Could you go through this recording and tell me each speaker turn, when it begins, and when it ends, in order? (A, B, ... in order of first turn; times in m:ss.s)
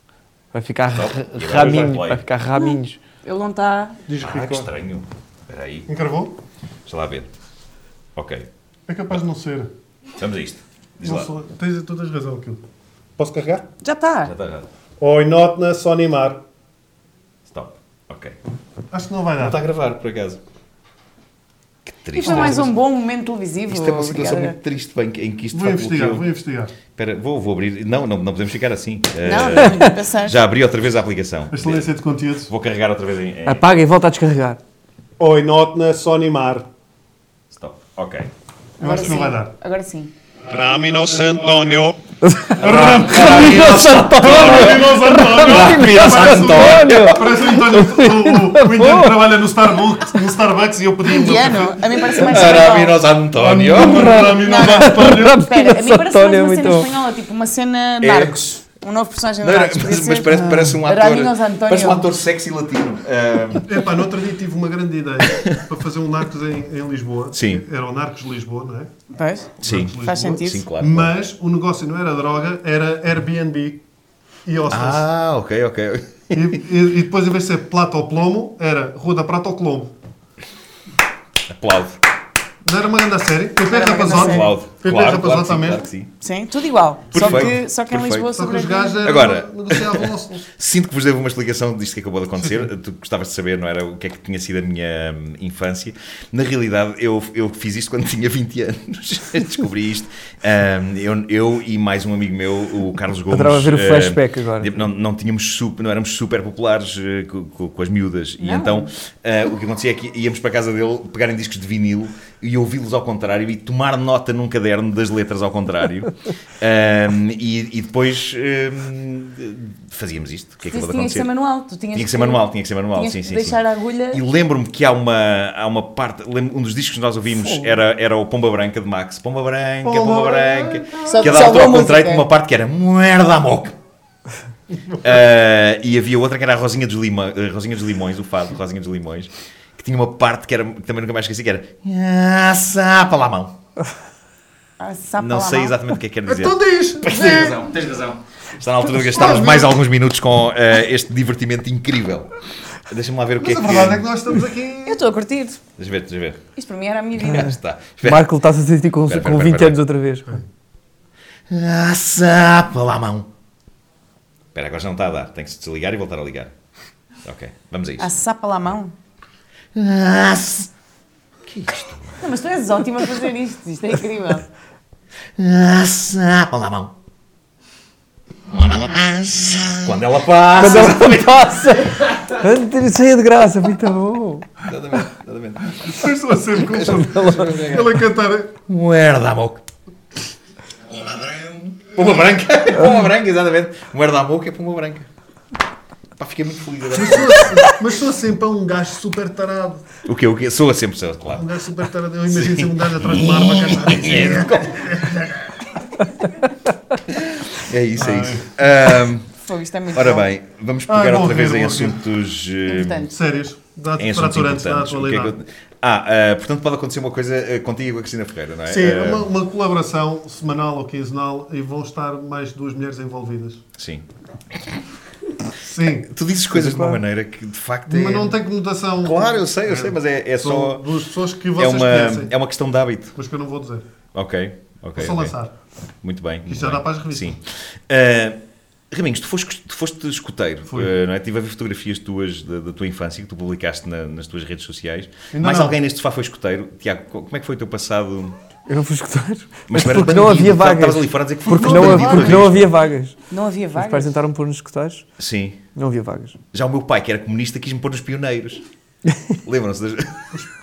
0:00.5-0:03.0 A
0:01.0-0:02.2 B
0:02.6-0:04.0 C
0:04.1-0:04.7 D
0:04.2-0:05.9 B
0:05.9-0:06.4 D
0:06.9-0:07.3 B
0:08.2-0:08.5 B
0:08.9-0:09.7 D
0:10.2-0:11.3 B
0:11.0-0:12.6 D
0:13.2-0:13.7 D
0:13.8-0:14.3 C
0:14.2-0:14.7 B
0:15.0-0:16.4 D
0:17.5-0:18.4 B
0:18.9-0:19.6 D
0:19.4-0:20.4 B
0:21.9-0:22.7 B
0:22.2-0:24.6 C
0:23.7-0:26.3 B
0:25.5-0:26.7 D
0:27.0-0:31.9 B
0:29.2-0:30.4 C
0:29.6-0:29.9 A
0:31.5-0:32.5 D
0:32.5-0:33.6 B
0:33.5-0:34.6 A
0:35.2-0:36.7 D
0:37.5-0:38.3 B
0:38.8-0:39.5 D
0:38.8-0:40.1 C
0:38.9-0:39.2 B
0:40.5-0:51.9 D
0:42.2-0:49.2 A
0:42.6-0:47.3 B
0:51.0-0:53.0 C
0:52.1-0:54.3 B
0:53.4-0:55.4 D
0:53.7-0:56.9 A
0:54.2-1:02.1 C
0:58.0-0:58.5 B
0:59.4-1:03.9 B
1:03.6-1:08.9 D
1:05.2-1:05.6 B
1:07.3-1:07.6 B
1:09.2-1:10.7 C
1:09.6-1:13.8 D
1:09.6-1:11.1 B
1:14.4-1:15.0 D
1:14.7-1:16.6 B
1:16.3-1:19.9 D
1:21.5-1:22.0 B
1:22.6-1:25.9 D
1:23.6-1:24.5 C
1:24.1-1:26.1 B
1:26.2-1:29.1 C
1:27.1-1:28.3 B
1:27.2-1:27.5 D
1:28.3-1:30.5 D
1:29.0-2:01.3 B
1:32.4-1:32.7 D
1:43.3-1:44.8 A
1:48.4-1:48.9 C
2:00.7-2:04.2 C
2:01.9-2:03.6 B
2:04.1-2:13.8 B
2:09.8-2:11.6 D
2:11.0-2:12.2 C
2:15.0-2:23.6 B
2:24.8-2:25.8 C
2:25.2-2:32.3 B
2:26.3-2:27.6 D
2:29.0-2:29.8 D
2:32.9-2:34.1 B
2:33.4-2:35.0 D
2:34.8-2:35.6 C
2:35.8-2:36.4 B
2:36.6-2:37.5 C
2:37.2-2:38.3 B
2:37.3-2:40.4 A
2:39.1-2:39.8 B
2:41.5-2:43.3 B
2:44.5-2:46.5 B
2:47.2-2:48.1 B
2:48.0-2:48.9 C
2:49.7-2:50.7 B
2:51.4-2:52.2 B
2:52.2-2:54.5 C
2:55.4-2:56.9 B
2:58.5-3:02.1 B
3:00.6-3:04.5 A
3:04.6-3:06.0 B
3:05.8-3:08.6 D
3:06.6-3:08.0 B
3:06.8-3:07.7 A
3:08.7-3:09.6 B
3:10.9-3:15.1 B
3:16.2-3:17.7 B
3:16.9-3:19.8 D
3:20.0-3:21.5 B
3:21.3-3:25.7 D
3:22.3-3:24.8 B
3:27.1-3:29.3 B
3:28.0-3:28.5 D
3:29.4-3:30.3 C
3:29.9-3:33.1 B
3:30.9-3:32.0 D
3:32.7-3:33.1 C
3:33.1-3:35.4 D
3:34.0-3:39.3 B
3:38.7-3:43.6 D
3:43.8-3:44.1 B
3:45.6-3:46.1 D
3:46.0-3:48.3 B
3:46.6-3:47.0 A
3:47.9-3:52.3 D
3:49.0-3:50.9 B
3:51.6-3:53.2 B
3:53.2-3:53.8 D
3:54.1-3:55.3 B
3:55.0-3:55.5 D
3:56.0-4:08.4 B
3:56.5-3:57.4 D
4:00.7-4:00.9 D
4:05.3-4:05.8 D
4:08.7-4:13.2 A
4:09.7-4:12.7 B
4:11.5-4:12.5 D
4:13.3-4:14.2 C
4:13.8-4:15.1 A
4:15.2-4:15.6 B
4:15.8-4:16.4 A
4:16.5-4:18.6 B
4:19.4-4:20.3 B